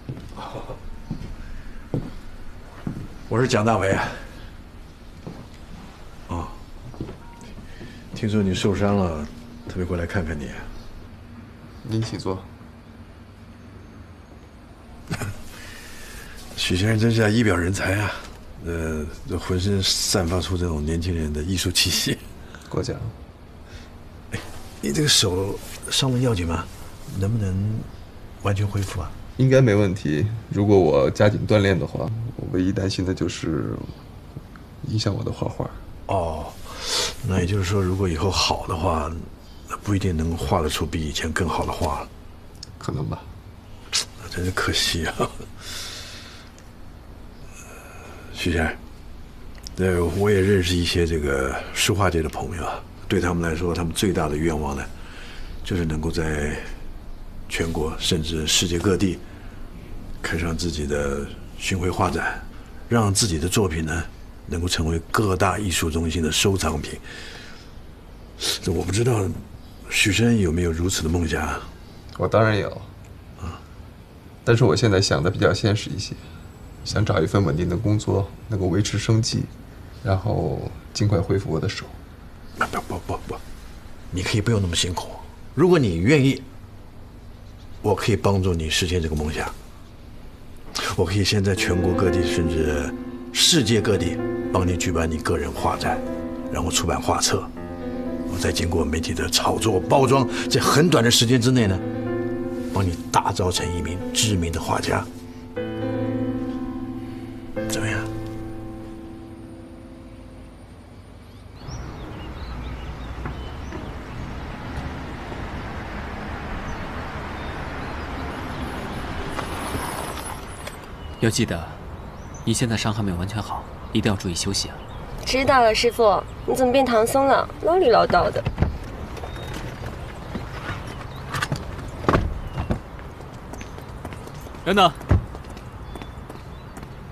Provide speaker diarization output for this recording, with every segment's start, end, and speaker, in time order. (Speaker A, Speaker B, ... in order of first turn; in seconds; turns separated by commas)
Speaker A: 0.4-0.6, Speaker B: 3.3-4.3, Speaker B: 6.3-6.6, Speaker B: 8.1-10.7, Speaker A: 11.8-12.5, Speaker B: 16.5-22.2, Speaker A: 22.7-23.1, Speaker B: 24.3-27.9, Speaker B: 28.4-29.1, Speaker A: 29.4-34.0, Speaker A: 34.8-35.8, Speaker B: 36.1-42.1, Speaker A: 42.8-43.3, Speaker B: 44.2-45.5, Speaker B: 48.3-48.8, Speaker B: 49.8-54.9, Speaker B: 55.6-56.7, Speaker B: 57.5-59.2, Speaker B: 60.2-67.0, Speaker B: 68.4-71.7, Speaker A: 72.2-72.9, Speaker A: 74.4-76.2, Speaker A: 76.8-79.5, Speaker A: 80.0-82.0, Speaker B: 82.6-83.4, Speaker B: 84.1-86.4, Speaker B: 87.8-89.5, Speaker B: 90.7-97.5, Speaker B: 98.3-101.8, Speaker B: 102.7-105.1, Speaker B: 107.7-108.1, Speaker C: 121.2-121.8, Speaker C: 122.4-124.8, Speaker D: 125.2-128.5, Speaker C: 134.7-135.0